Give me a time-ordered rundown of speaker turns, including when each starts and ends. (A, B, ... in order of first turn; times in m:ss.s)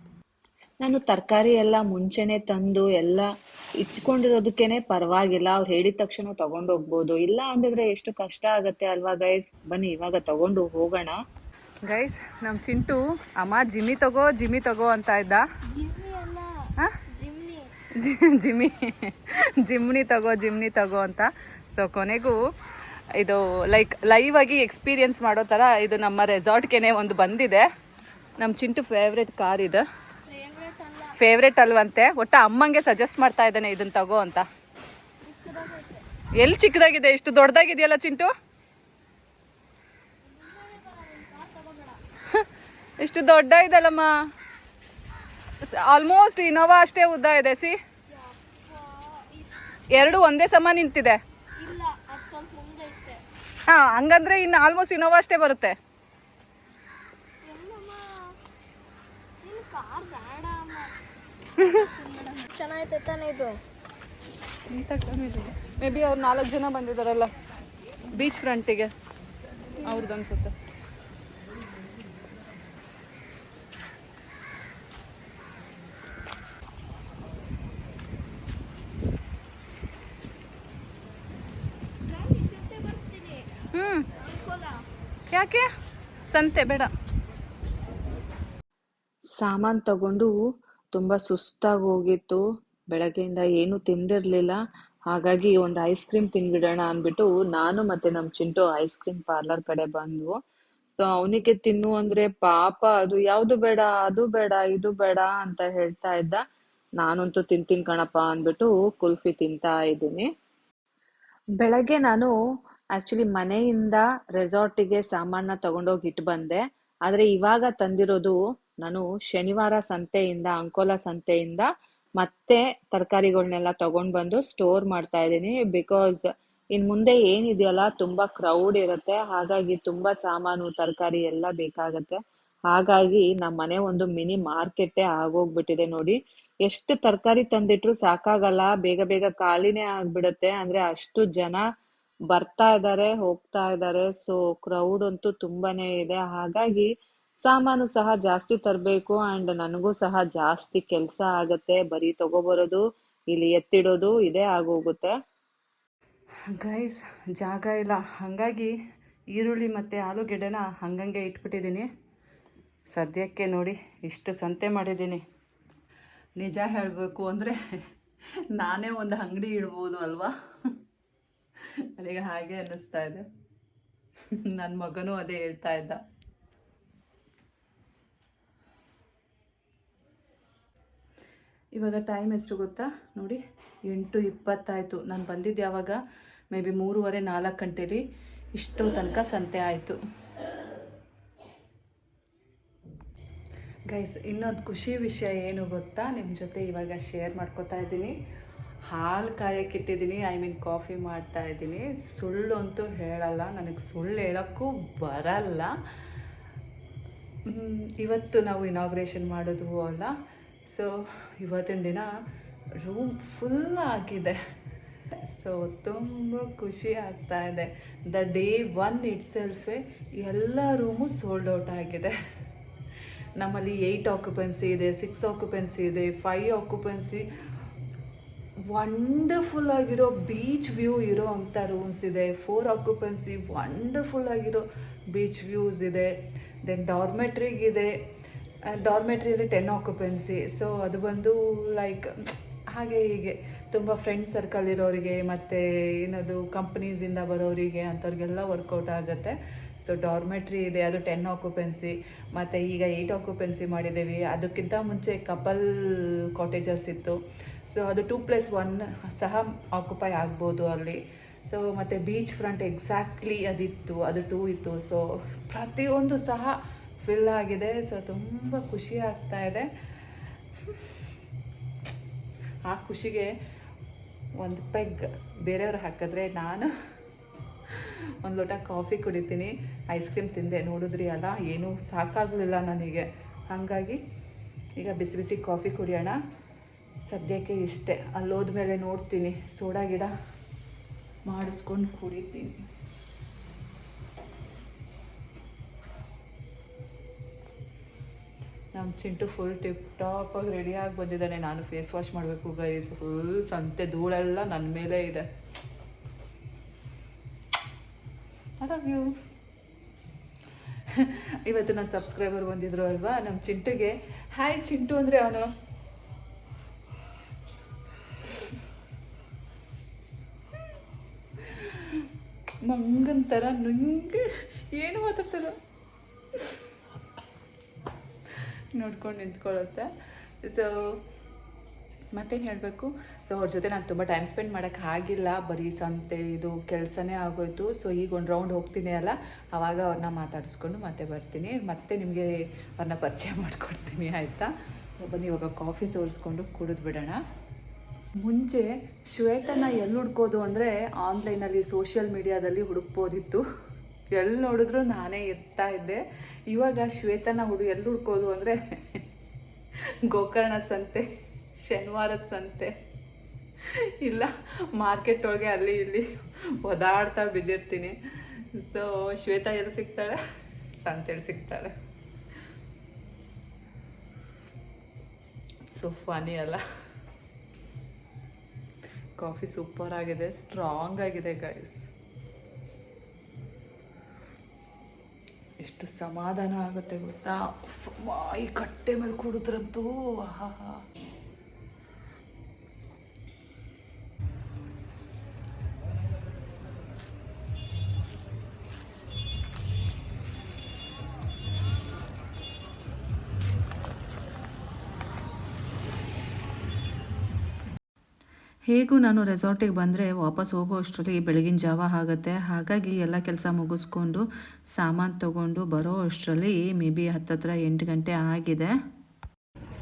0:00.8-0:11.2 A
0:11.9-0:15.4 B
0:15.7-0:17.7 C
0:18.0-0:22.4 B
0:23.2-0:27.7 B
0:28.4-0:29.8 B
0:30.3-0:31.1 C
0:31.2-0:34.4 B
0:35.2-0:36.0 C
0:36.4-0:38.3 B
0:40.2-0:42.0 C
0:43.0-0:44.1 B
0:45.8-0:47.8 B
0:48.1-0:49.6 C
0:49.9-0:51.2 B
0:51.6-0:53.2 C
0:53.7-0:55.8 B
0:57.4-0:58.3 C
0:59.4-1:00.9 C
1:01.6-1:03.6 C
1:04.7-1:07.3 B
1:08.1-1:08.9 B
1:09.8-1:10.5 B
1:22.0-1:23.4 C
1:23.7-1:24.1 B
1:24.2-1:24.9 C
1:25.3-1:25.7 B
1:26.3-1:26.9 B
1:29.3-1:30.4 A
1:31.0-1:40.4 A
1:41.0-1:46.4 A
1:47.0-1:50.3 A
1:51.6-1:52.3 A
1:53.0-2:01.7 A
2:02.2-2:12.2 A
2:12.7-2:21.6 A
2:22.3-2:26.9 A
2:27.4-2:35.1 A
2:36.6-2:38.7 B
2:39.3-2:41.9 B
2:42.9-2:45.2 B
2:46.4-2:47.6 B
2:48.6-2:50.3 B
2:52.0-2:53.2 B
2:54.5-2:56.0 B
3:01.8-3:06.0 B
3:06.5-3:08.0 B
3:08.6-3:10.0 B
3:13.9-3:18.1 B
3:18.9-3:25.7 B
3:27.5-3:30.1 B
3:30.7-3:32.1 B
3:32.8-3:34.4 B
3:35.3-3:42.1 B
3:43.4-3:47.2 B
3:48.7-3:56.1 B
3:56.6-3:57.9 B
3:58.8-4:02.1 B
4:02.7-4:15.6 B
4:16.4-4:17.2 B
4:17.7-4:29.7 B
4:32.6-4:33.3 B
4:34.4-4:36.7 B
4:38.2-4:44.0 B
4:44.8-4:46.2 B
4:47.0-4:50.1 B
4:51.3-4:52.5 B
4:58.7-5:05.2 B
5:08.6-5:09.1 B
5:11.5-5:15.4 B
5:22.7-5:25.5 B
5:28.8-5:29.9 B
5:30.4-5:30.7 B
5:32.1-5:47.2 B
5:48.2-5:53.4 B
5:54.1-5:58.6 B
6:00.1-6:01.0 B
6:01.6-6:02.7 B
6:04.0-6:06.0 B
6:06.6-6:08.0 B
6:08.6-6:10.2 B
6:10.8-6:11.7 B
6:15.7-6:16.6 B
6:19.2-6:21.8 B
6:25.6-6:30.8 B
6:48.7-6:54.2 B
6:54.8-6:58.7 B